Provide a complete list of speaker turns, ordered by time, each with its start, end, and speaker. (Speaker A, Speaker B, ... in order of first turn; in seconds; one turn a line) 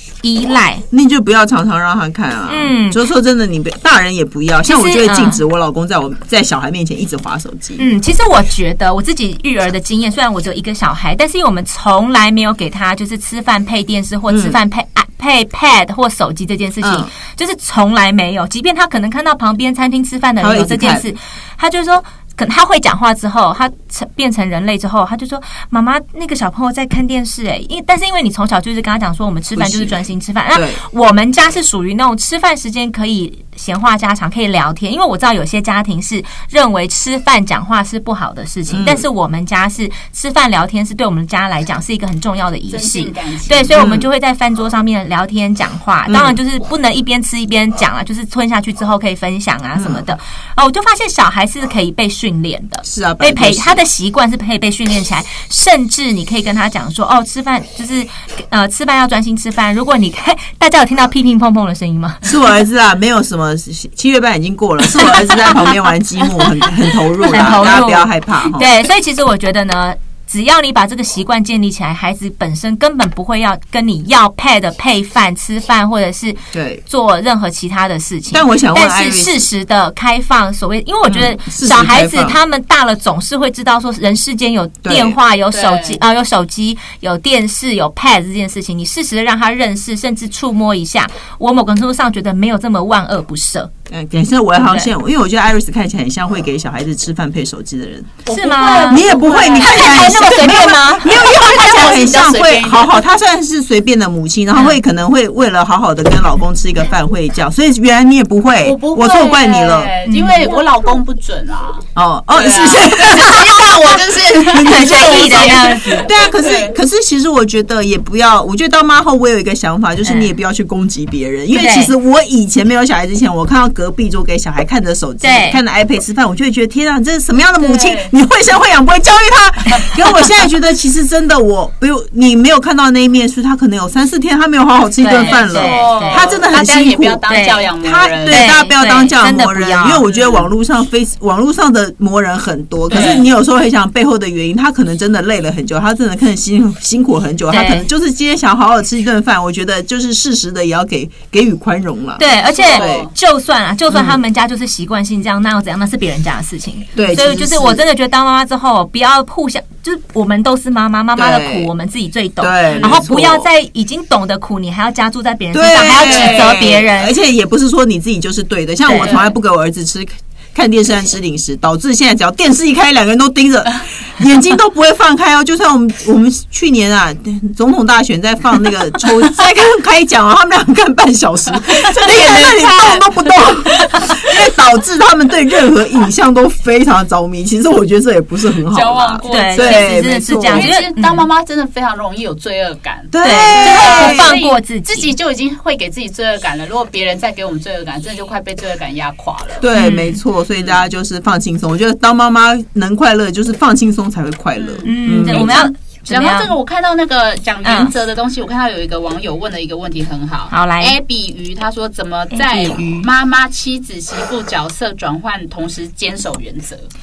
Speaker A: 0.2-0.8
Speaker B: 0.9-7.8
Speaker A: 2.5-3.0
Speaker A: 4.7-5.4
Speaker A: 7.8-62.2
Speaker B: 14.3-14.6
Speaker B: 16.8-17.1
Speaker B: 20.4-21.1
Speaker B: 29.5-30.0
Speaker B: 30.5-30.8
Speaker B: 38.7-39.1
Speaker C: 42.7-43.8
Speaker B: 43.7-44.1
Speaker B: 46.1-46.4
Speaker B: 49.7-50.1
Speaker B: 52.8-53.8
Speaker B: 62.2-68.7
Speaker A: 65.0-65.7
Speaker A: 67.2-93.7
Speaker B: 76.5-76.8
Speaker B: 78.3-79.5
Speaker B: 81.0-82.4
Speaker B: 84.8-85.2
Speaker C: 85.5-86.0
Speaker B: 93.9-109.9
Speaker A: 94.5-94.9
Speaker A: 98.3-101.3
Speaker C: 98.3-100.2
Speaker C: 101.0-103.0
Speaker A: 104.5-104.8
Speaker C: 108.6-116.8
Speaker A: 110.0-110.5
Speaker B: 112.0-137.2
Speaker A: 114.5-116.1
Speaker A: 120.0-120.3
Speaker A: 121.5-121.9
Speaker A: 125.2-125.6
Speaker C: 127.6-128.1
Speaker A: 135.0-136.3
Speaker C: 135.2-138.6
Speaker A: 137.3-137.7
Speaker B: 137.8-153.1
Speaker A: 138.2-140.0
Speaker C: 140.0-140.5
Speaker C: 142.9-143.3
Speaker A: 147.5-147.9
Speaker A: 152.2-167.1
Speaker C: 152.3-153.1
Speaker B: 153.9-154.2
Speaker B: 156.9-157.8
Speaker B: 161.1-161.7
Speaker B: 162.4-163.5
Speaker C: 162.7-163.0
Speaker B: 165.5-190.7
Speaker C: 165.9-166.5
Speaker A: 168.8-169.2
Speaker C: 169.0-169.3
Speaker C: 181.5-184.2
Speaker C: 188.7-199.7
Speaker A: 189.3-191.3
Speaker B: 193.1-194.3
Speaker A: 193.2-195.1
Speaker B: 199.6-205.7
Speaker A: 199.7-200.2
Speaker C: 204.6-216.9
Speaker A: 204.8-206.5
Speaker A: 207.6-207.9
Speaker A: 210.5-210.9
Speaker A: 212.3-213.1